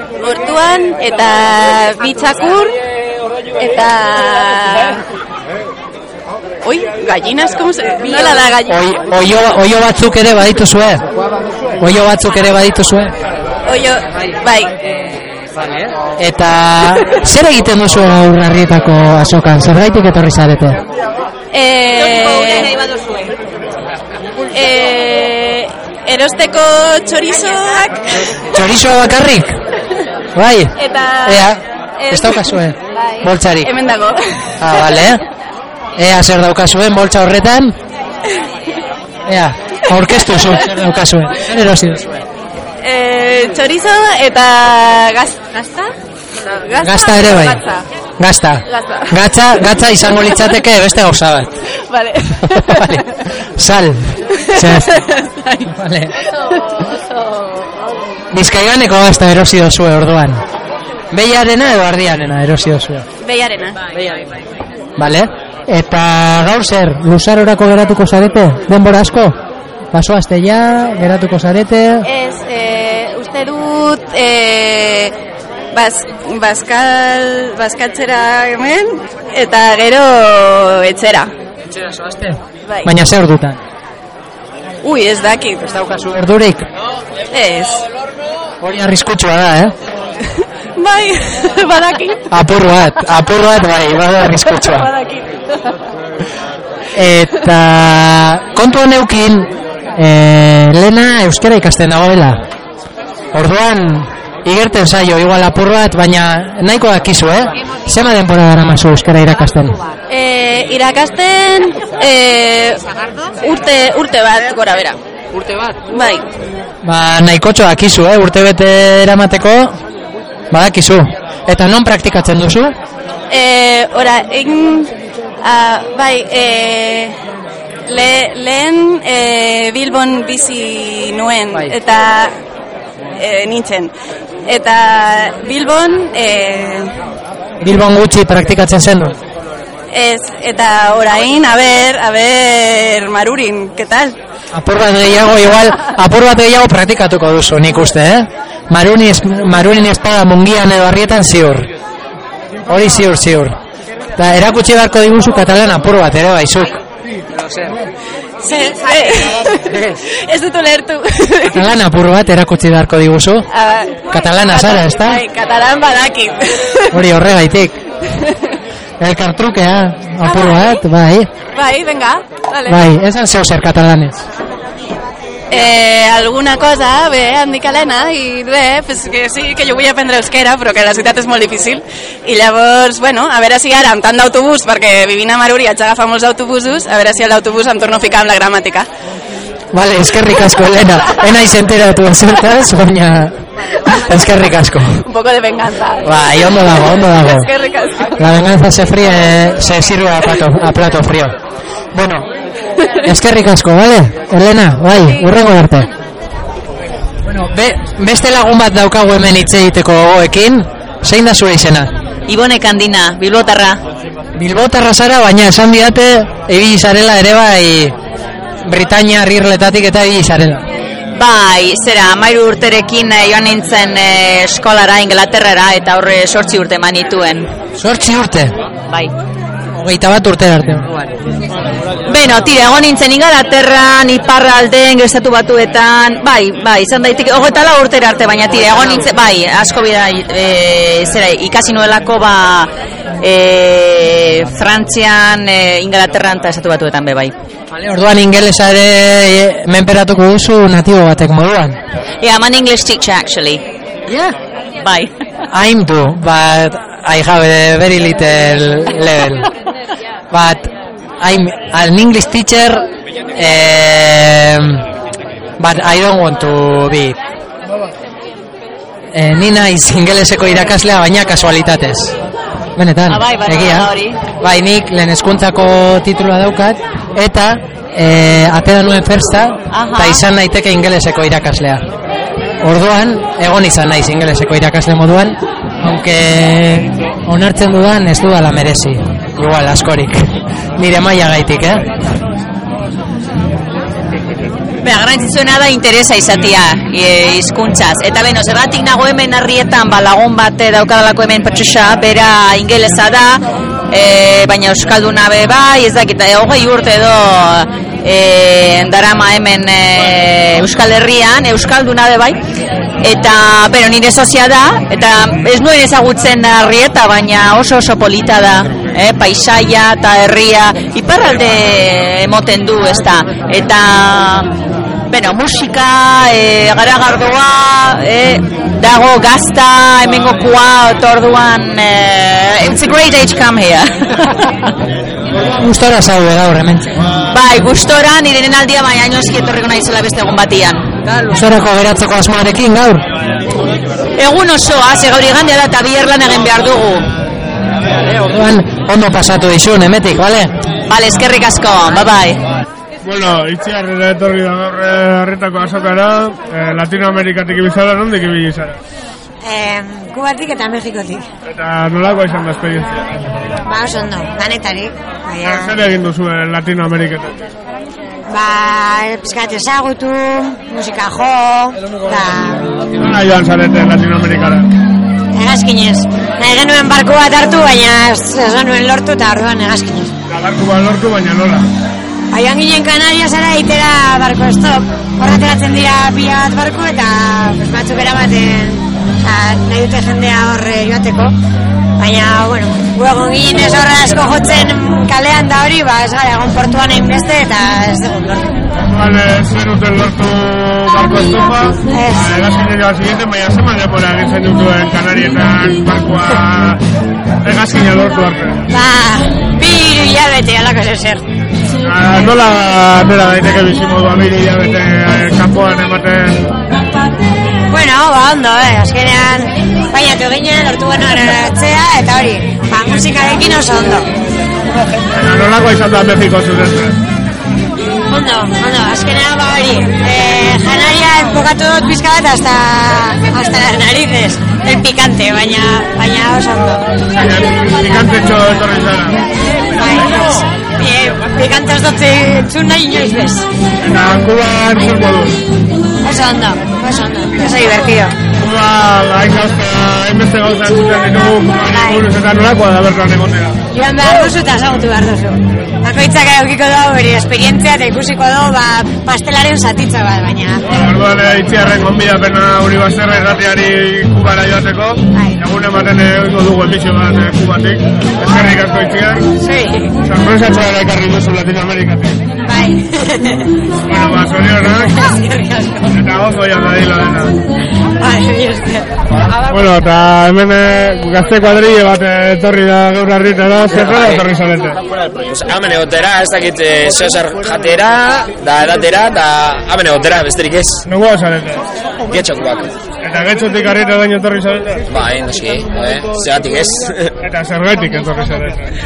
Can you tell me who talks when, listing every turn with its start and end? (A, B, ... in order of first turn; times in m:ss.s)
0:00.2-0:02.8 A
0:03.6-0:05.0 A
0:06.6-0:08.9 A
0:08.7-0:11.0 B
0:11.8-0:13.2 B
0:13.6-0:14.8 A
0:16.2-0:20.8 B
0:21.5-0:22.8 A
0:24.5-0:28.2 A
0:28.5-0:29.6 B
0:30.4-0:30.7 B
0:30.8-0:35.2 A
0:31.2-0:33.7 B
0:34.6-0:35.2 B
0:36.0-0:37.8 B
0:39.3-0:42.2 B
0:42.8-0:45.9 A
0:46.4-0:47.8 A
0:46.8-0:47.6 B
0:48.2-0:51.6 B
0:48.7-0:49.2 A
0:51.9-0:53.0 A
0:52.4-0:53.0 B
0:53.6-0:54.9 B
0:54.6-0:55.7 A
0:55.7-0:56.1 B
0:58.3-1:00.4 B
1:01.1-1:03.1 B
1:03.2-1:03.8 A
1:05.0-1:09.4 B
1:09.9-1:12.1 B
1:12.0-1:15.1 A
1:15.7-1:21.3 A
1:21.8-1:23.6 B
1:22.7-1:22.9 A
1:24.8-1:25.7 A
1:25.6-1:26.7 B
1:27.3-1:27.8 A
1:28.6-1:29.7 B
1:30.8-1:32.3 A
1:32.3-1:34.9 B
1:34.5-1:35.4 A
1:37.0-1:42.4 B
1:43.3-1:49.8 B
1:50.1-1:55.0 A
1:55.8-1:56.3 A
1:56.8-1:59.8 B
2:00.5-2:02.8 B
2:03.3-2:07.2 A
2:07.9-2:12.4 A
2:13.2-2:13.9 A
2:14.4-2:16.9 A
2:17.6-2:19.2 B
2:19.9-2:24.2 A
2:24.5-2:31.7 B
2:32.7-2:33.6 B
2:34.2-2:36.8 B
2:38.4-2:41.7 A
2:41.5-2:43.5 B
2:43.5-2:47.0 A
2:44.1-2:45.2 B
2:46.9-2:47.8 B
2:49.0-2:51.3 B
2:50.2-2:50.8 A
2:51.5-2:52.9 A
2:52.7-2:54.2 B
2:55.5-3:08.9 A
3:09.7-3:13.4 B
3:14.1-3:15.0 B
3:15.1-3:18.2 A
3:16.0-3:17.5 B
3:18.2-3:21.4 B
3:21.9-3:22.3 B
3:23.0-3:25.9 B
3:25.0-3:25.3 A
3:27.3-3:32.0 B
3:32.3-3:33.8 C
3:34.4-3:38.0 B
3:38.6-3:40.7 B
3:41.2-3:47.5 C
3:47.8-3:48.6 B
3:49.8-3:50.9 B
3:52.1-4:02.7 C
4:03.2-4:07.3 C
4:07.7-4:11.8 B
4:12.2-4:13.6 C
4:14.1-4:14.4 B
4:14.8-4:15.1 C
4:15.5-4:19.5 B
4:20.3-4:24.9 B
4:25.6-4:27.2 B
4:29.1-4:32.2 B
4:32.8-4:41.9 B
4:33.1-4:34.2 C
4:39.7-4:40.2 C
4:42.6-4:51.9 B
4:54.8-5:12.4 C
5:13.0-5:24.5 C
5:25.1-5:34.0 C
5:35.4-5:36.9 B
5:37.3-5:40.9 C
5:41.2-5:43.0 B
5:44.2-5:47.1 C
5:48.0-5:50.5 B
5:50.9-5:52.4 C
5:53.0-5:58.8 D
5:59.4-6:01.2 E
6:01.5-6:03.4 D
6:03.6-6:05.8 E
6:05.4-6:07.4 D
6:08.3-6:12.7 E
6:13.0-6:14.7 D
6:15.3-6:20.1 E
6:20.3-6:21.7 D
6:22.3-6:31.3 E
6:32.0-6:38.6 E
6:38.8-6:46.8 D
6:41.9-6:42.4 E
6:47.4-6:48.6 D
6:48.7-6:51.2 E
6:51.8-6:56.5 D
6:57.7-7:04.1 E
7:05.1-7:07.0 D
7:08.1-7:16.9 E
7:17.1-7:19.2 D
7:19.7-7:23.5 E
7:23.8-7:25.4 D
7:26.0-7:28.2 E
7:28.4-7:33.6 D
7:31.5-7:32.0 E
7:33.7-7:40.6 E
7:40.7-7:49.3 D
7:49.4-7:50.0 E
7:50.0-7:52.2 D
7:52.4-7:53.5 E
7:53.9-7:55.0 D
7:54.7-7:56.0 E
7:55.9-7:57.4 D
7:58.0-7:58.9 E
7:59.5-8:04.8 D
8:03.7-8:04.2 F
8:05.2-8:10.8 F
8:10.9-8:11.6 D
8:12.1-8:12.7 F
8:13.0-8:14.8 D
8:14.9-8:17.1 F
8:17.2-8:18.7 D